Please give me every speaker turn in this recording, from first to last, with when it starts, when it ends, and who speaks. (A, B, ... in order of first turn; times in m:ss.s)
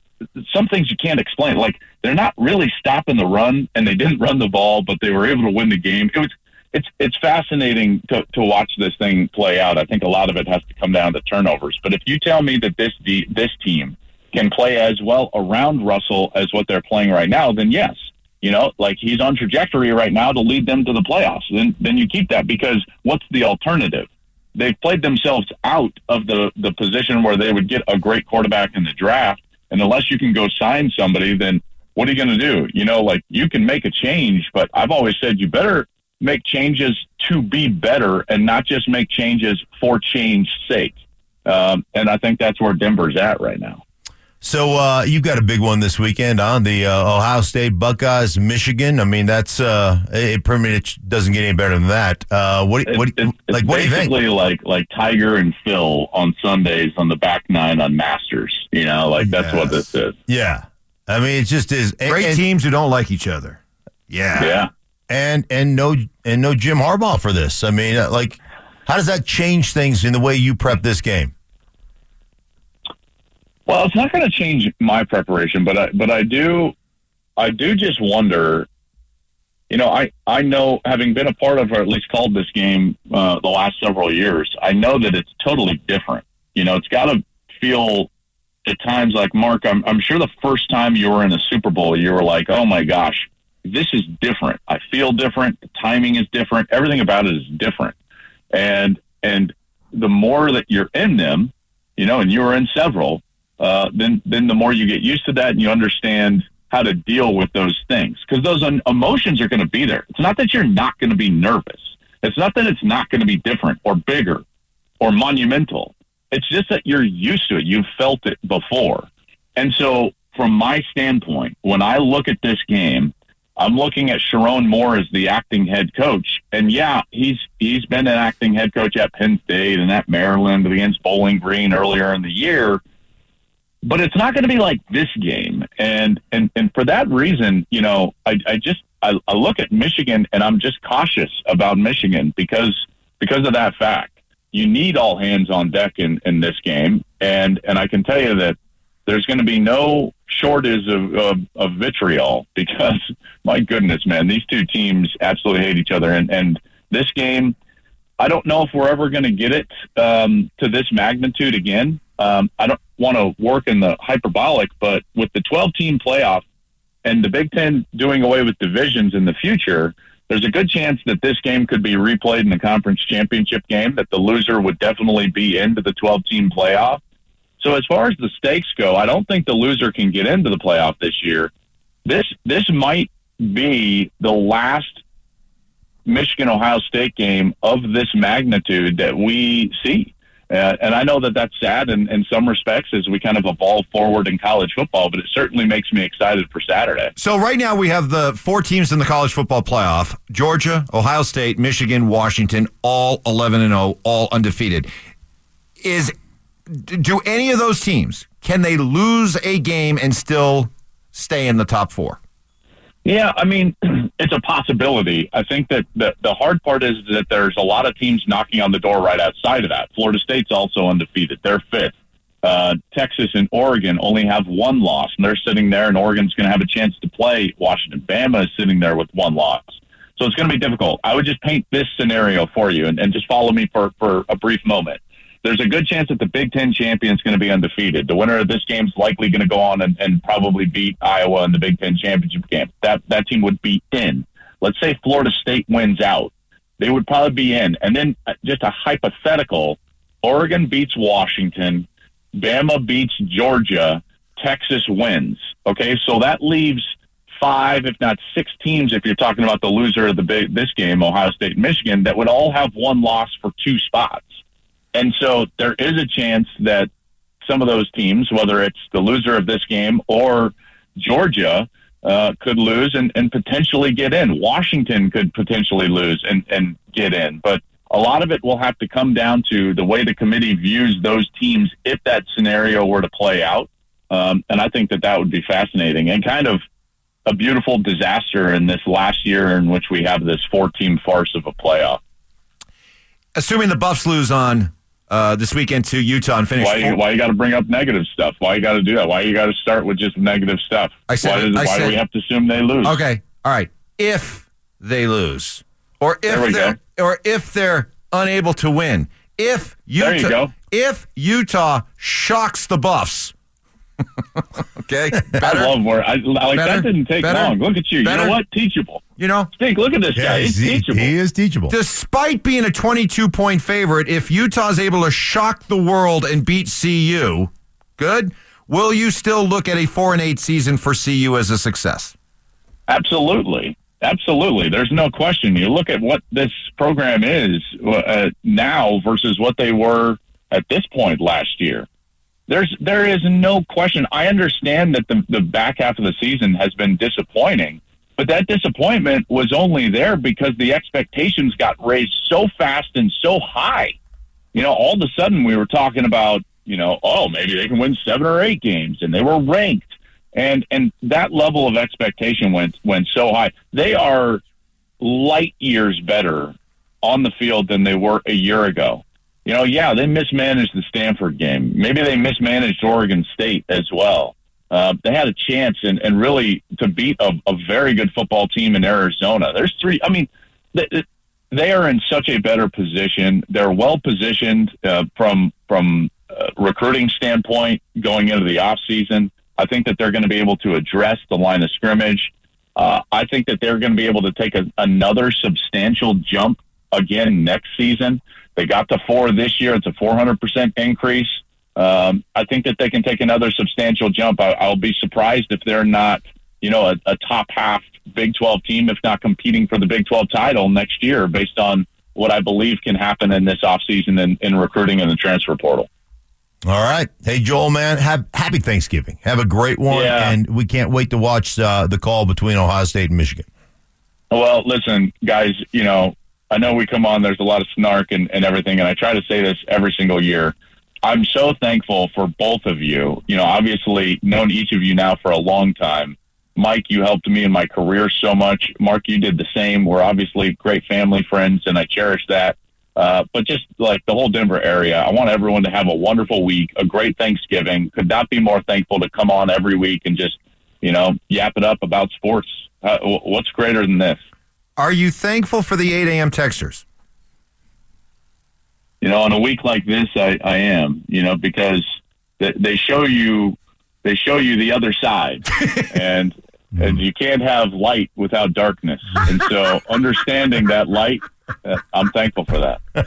0:00.4-0:43.8 A
0:44.4-0:54.1 B
0:52.9-1:00.2 A
0:59.4-0:59.8 C
1:00.3-1:02.4 B
1:02.1-1:04.6 C
1:04.4-1:04.7 A
1:05.1-1:11.3 B
1:13.7-1:16.7 A
1:17.4-1:18.7 A
1:19.7-1:28.1 A
1:28.6-1:38.0 A
1:38.5-1:54.4 A
1:55.0-2:12.8 A
2:13.8-2:28.6 A
2:29.1-2:37.5 A
2:38.2-2:46.4 A
2:47.0-2:57.0 A
2:57.6-3:01.5 A
3:02.0-3:05.0 A
3:06.1-3:17.1 A
3:17.2-3:24.9 C
3:25.8-3:26.1 C
3:26.7-3:32.2 C
3:33.0-4:11.9 A
4:12.4-4:24.3 A
4:24.9-4:26.9 A
4:27.4-4:46.6 A
4:47.2-4:52.0 A
4:53.4-4:57.0 C
4:56.6-5:03.0 A
5:01.1-5:02.0 C
5:02.8-5:13.3 C
5:06.3-5:06.8 A
5:10.0-5:10.5 A
5:14.2-5:15.8 C
5:15.4-5:21.1 A
5:16.5-5:18.4 C
5:19.2-5:19.5 C
5:20.1-5:21.7 B
5:21.7-5:32.1 C
5:32.9-5:41.9 A
5:42.5-5:54.0 A
5:54.5-6:04.4 A
6:05.0-6:55.9 A
6:56.6-7:03.4 B
6:59.9-7:00.4 A
7:04.3-7:34.2 A
7:34.8-7:36.8 C
7:39.0-7:41.8 A
7:42.4-7:52.8 A